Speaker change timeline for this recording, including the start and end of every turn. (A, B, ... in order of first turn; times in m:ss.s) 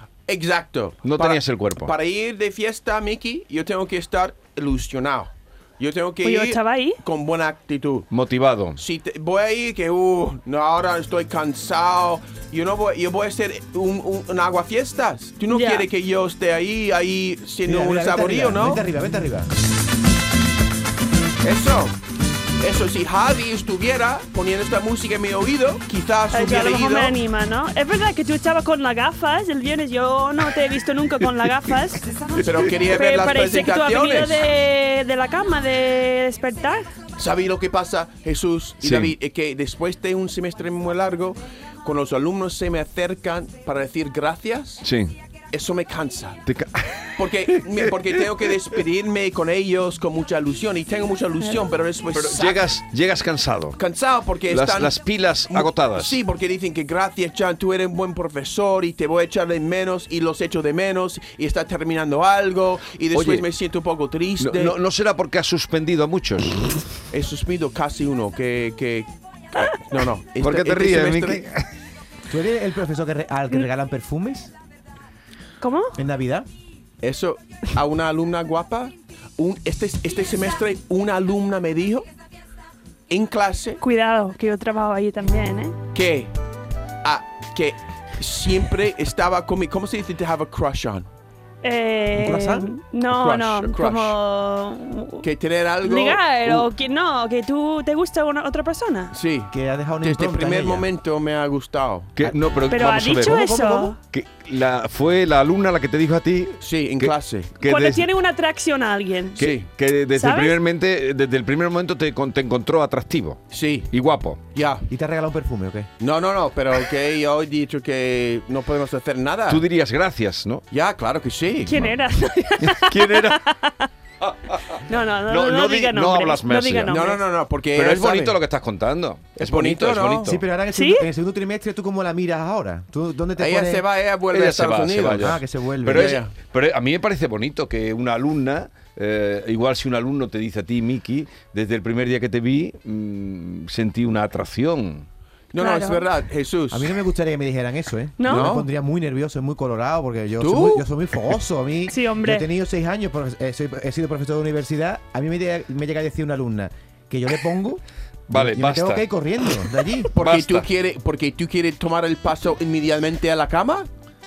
0:00.3-0:08.1 A
0:01.0-0:01.9 B
0:06.2-0:07.0 C
0:08.1-0:08.8 B
0:08.8-0:18.8 A
0:15.5-0:15.9 C
0:17.6-0:19.5 D
0:21.4-0:22.0 A
0:22.6-0:27.2 A
0:26.3-0:36.8 C
0:32.4-0:34.4 A
0:37.2-0:44.8 A
0:38.8-0:39.1 B
0:44.8-0:45.1 B
0:45.5-0:46.4 A
0:46.5-0:48.5 B
0:47.2-0:52.7 A
0:52.1-0:53.8 B
0:53.8-0:55.0 A
0:54.5-0:56.2 B
0:55.5-1:04.7 A
1:03.1-1:03.4 B
1:04.4-1:06.6 B
1:07.1-1:11.4 A
1:10.4-1:11.7 B
1:12.3-1:14.5 D
1:15.6-1:16.0 C
1:16.0-1:16.5 D
1:17.0-1:22.0 A
1:23.1-1:23.8 A
1:23.8-1:25.8 C
1:25.9-1:26.3 A
1:27.0-1:31.1 A
1:31.6-1:35.3 C
1:32.1-1:32.7 D
1:33.1-1:34.2 A
1:35.2-1:36.7 A
1:35.8-1:39.1 C
1:39.1-1:42.1 A
1:39.5-1:40.9 D
1:42.2-1:48.0 B
1:42.7-1:44.0 C
1:46.6-1:47.5 A
1:47.6-1:49.4 C
1:49.4-1:49.7 A
1:49.4-1:54.4 B
1:50.1-1:50.6 C
1:53.5-1:53.9 A
1:54.5-1:54.8 A
1:54.9-1:55.9 D
1:56.0-1:59.6 A
1:59.5-2:00.6 B
2:00.7-2:01.8 A
2:01.6-2:03.9 C
2:02.6-2:03.4 B
2:04.2-2:07.0 B
2:04.9-2:07.2 C
2:06.9-2:08.4 A
2:07.7-2:10.4 B
2:09.4-2:10.3 A
2:10.2-2:13.8 D
2:10.7-2:11.0 C
2:13.4-2:16.3 A
2:14.3-2:25.1 B
2:15.2-2:16.2 D
2:25.5-2:26.9 A
2:25.6-2:26.0 C
2:26.7-2:40.1 D
2:28.2-2:28.5 C
2:28.3-2:28.6 A
2:30.4-2:30.8 A
2:31.9-2:32.4 C
2:38.3-2:39.1 B
2:40.1-2:43.9 A
2:40.2-2:40.7 B